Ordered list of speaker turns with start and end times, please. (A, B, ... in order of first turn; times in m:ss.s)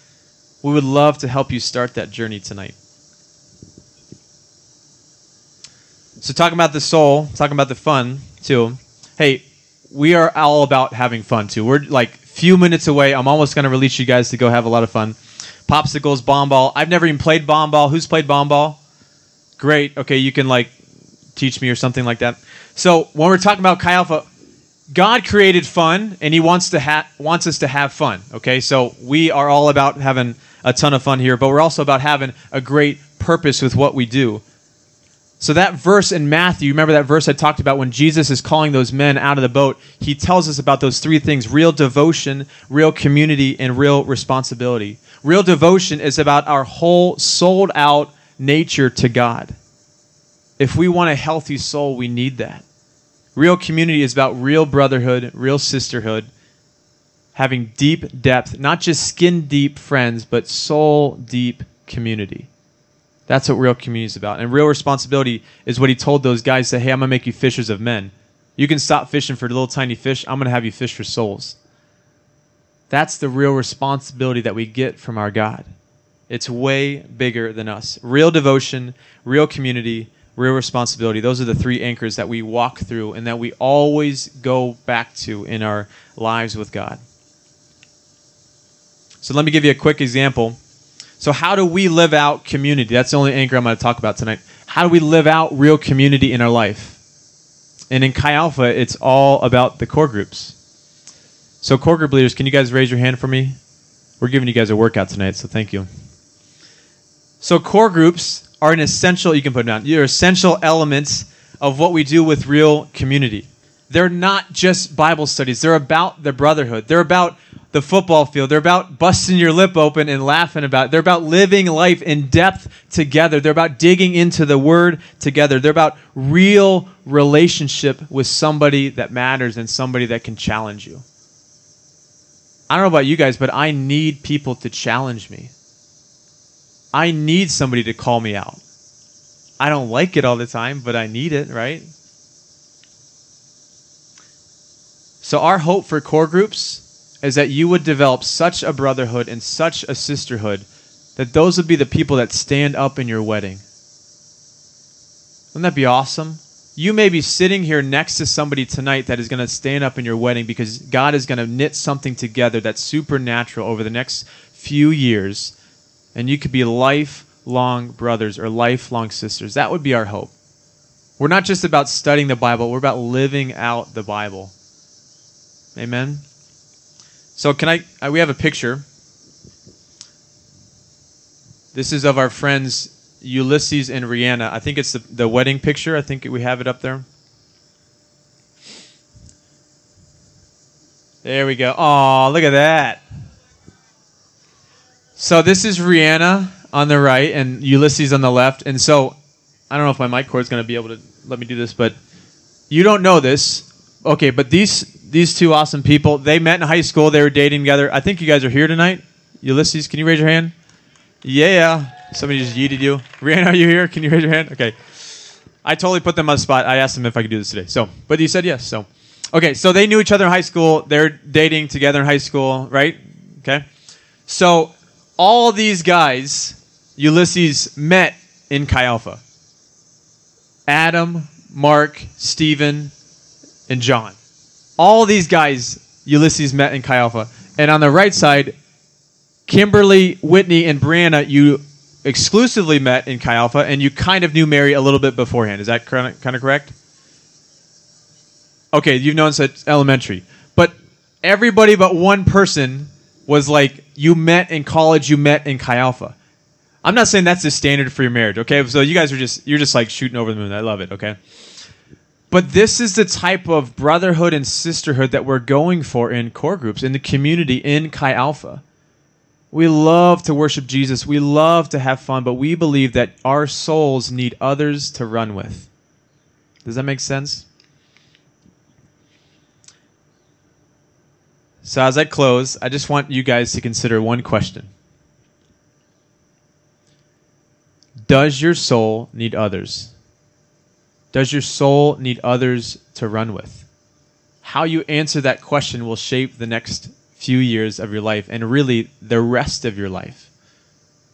0:00.6-0:02.8 A
0:06.2-0:18.8 A
0:19.6-0:20.7 A
0:21.4-0:24.3 A
0:24.9-0:34.4 A
0:35.4-0:49.6 A
0:50.6-0:52.7 A
0:53.4-0:56.3 A
0:57.4-1:02.5 A
1:03.3-1:11.6 A
1:12.9-1:15.7 A
1:16.3-1:27.0 A
1:29.2-1:30.6 A
1:31.2-1:37.0 A
1:37.9-1:40.6 A
1:41.6-1:43.6 A
1:44.2-1:45.9 A
1:47.4-2:11.0 A
2:12.7-2:15.5 A
2:16.9-2:18.6 A
2:19.6-2:21.9 A
2:25.2-2:33.6 A
2:35.5-2:45.6 A
2:46.2-2:50.3 A
2:51.2-2:54.5 A
2:55.8-2:56.2 A
2:57.4-2:58.8 A
3:01.7-3:07.1 A
3:11.2-3:13.0 A
3:15.2-3:19.2 A
3:19.7-3:22.0 A
3:22.7-3:30.5 A
3:31.2-3:34.9 A
3:35.6-3:43.7 A
3:44.3-3:49.2 A
3:50.7-3:52.9 A
3:53.7-3:54.2 A
3:54.8-3:58.6 A
3:59.5-4:06.8 A
4:08.7-4:16.2 A
4:16.8-4:21.2 A
4:22.3-4:28.6 A
4:29.5-4:35.7 A
4:36.6-4:37.5 A
4:41.6-4:44.7 A
4:48.1-4:49.9 A
4:51.1-4:53.7 A
4:54.4-5:00.3 A